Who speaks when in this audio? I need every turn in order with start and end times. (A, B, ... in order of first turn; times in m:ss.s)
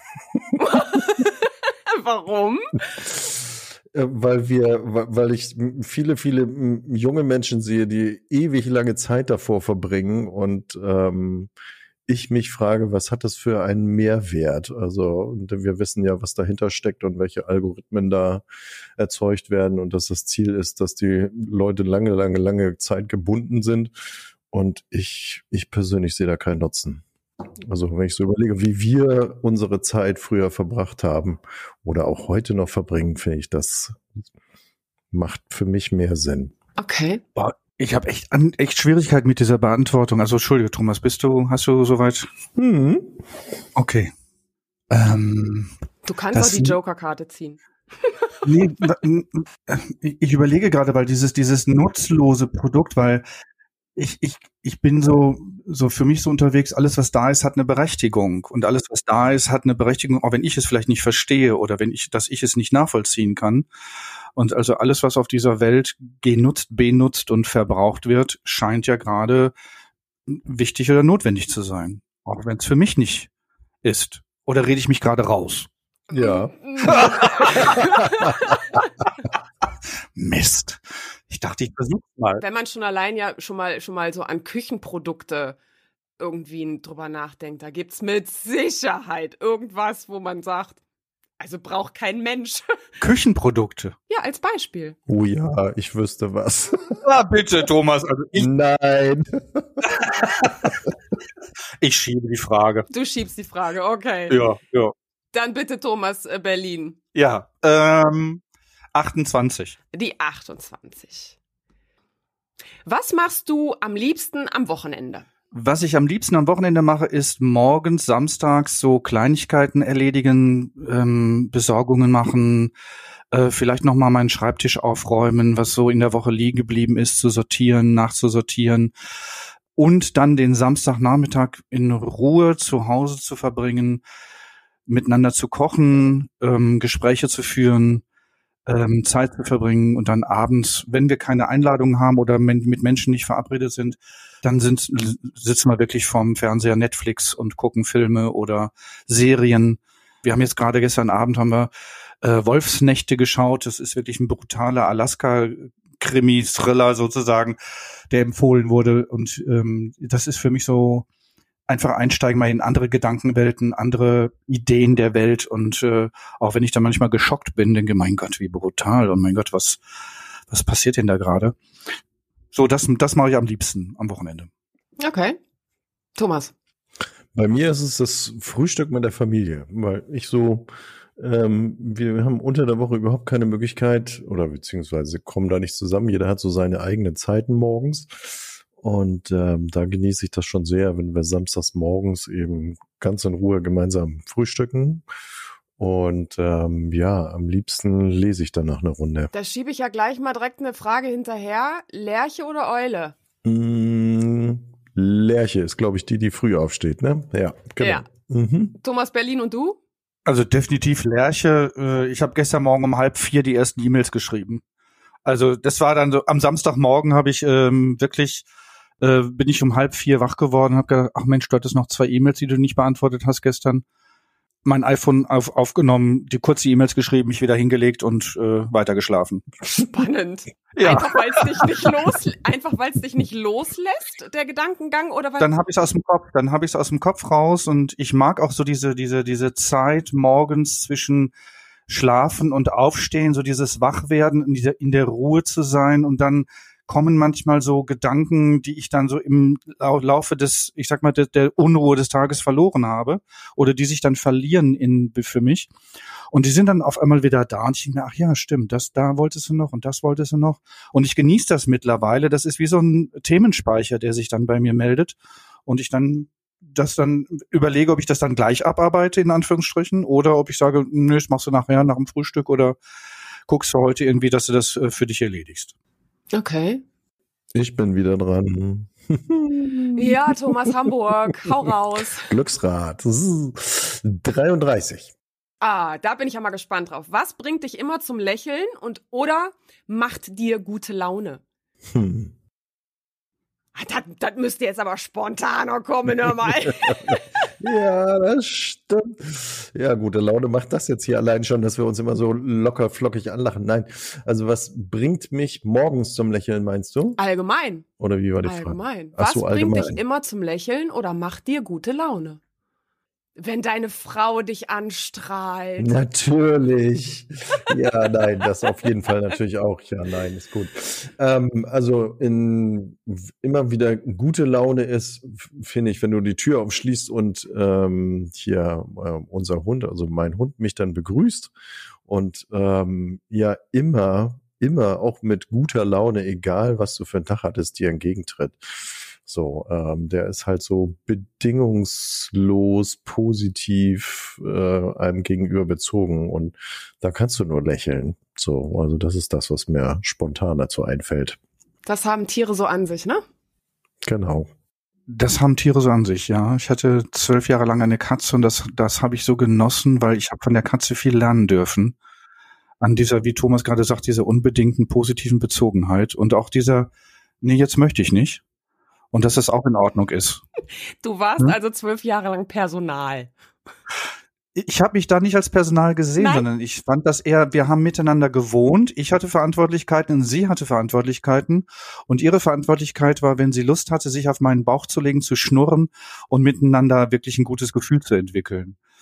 0:00.3-0:00.6 A
0:00.6-0:02.8 B
0:03.1-0:11.5 A
0:12.1-0:18.4 A
0:19.0-0:23.9 A
0:24.5-0:27.0 A
0:27.6-0:34.2 A
0:35.1-0:36.5 A
0:36.8-0:37.2 B
0:37.4-0:42.3 C
0:42.6-0:43.2 A
0:43.8-0:44.1 C
0:44.9-0:45.7 C
0:46.0-0:48.4 B
0:46.3-0:46.7 C
0:48.4-0:53.2 C
0:54.0-1:03.6 C
1:04.4-1:09.5 C
1:10.3-1:13.3 C
1:13.8-1:15.7 C
1:16.1-1:18.6 B
1:16.1-1:18.4 A
1:16.9-1:17.5 C
1:20.2-1:22.4 C
1:22.4-1:25.6 B
1:26.2-1:30.8 B
1:31.4-1:32.8 B
1:33.0-1:33.9 C
1:34.1-1:35.0 B
1:35.1-1:37.0 A
1:37.0-1:38.5 C
1:38.4-1:39.7 A
1:39.9-1:40.6 C
1:41.8-1:42.9 C
1:42.9-1:44.3 B
1:44.3-1:44.9 C
1:45.3-1:47.0 B
1:47.1-1:48.4 C
1:48.9-1:49.8 C
1:49.9-1:51.4 B
1:52.8-1:55.2 B
1:55.5-2:02.7 C
2:03.3-2:08.9 C
2:09.8-2:14.0 C
2:14.9-2:18.0 C
2:18.6-2:31.7 C
2:32.2-2:37.6 C
2:38.1-2:41.0 C
2:41.7-2:49.8 C
2:50.5-2:51.6 C
2:52.5-2:54.5 C
2:55.0-2:55.4 B
2:56.2-2:56.5 B
2:57.3-3:15.0 A
3:15.8-3:19.3 A
3:19.3-3:23.1 B
3:23.4-3:28.7 A
3:27.8-3:28.1 B
3:28.8-3:29.8 B
3:30.2-3:34.6 C
3:35.2-3:38.4 C
3:39.0-3:43.8 C
3:44.6-3:49.4 C
3:49.6-3:55.5 B
3:50.8-3:51.7 C
3:55.4-4:01.3 C
4:01.9-4:15.7 C
4:16.3-4:32.8 C
4:33.5-4:35.7 C
4:36.3-4:36.8 B
4:37.5-4:40.7 A
4:39.9-4:42.3 B
4:42.2-4:45.1 A
4:45.6-4:51.4 B
4:51.9-4:52.3 A
4:53.7-4:57.2 B
4:56.6-5:07.2 A
5:07.2-5:07.9 B
5:08.0-5:10.0 A
5:08.4-5:12.4 B
5:13.4-5:15.9 B
5:15.8-5:31.5 A
5:32.0-5:51.4 A
5:51.8-5:53.2 B
5:54.0-5:54.5 A
5:55.1-6:01.9 C
6:02.8-6:06.9 C
6:07.4-6:08.4 C
6:09.1-6:10.4 C
6:11.0-6:13.3 B
6:14.6-6:28.8 C
6:16.2-6:16.4 B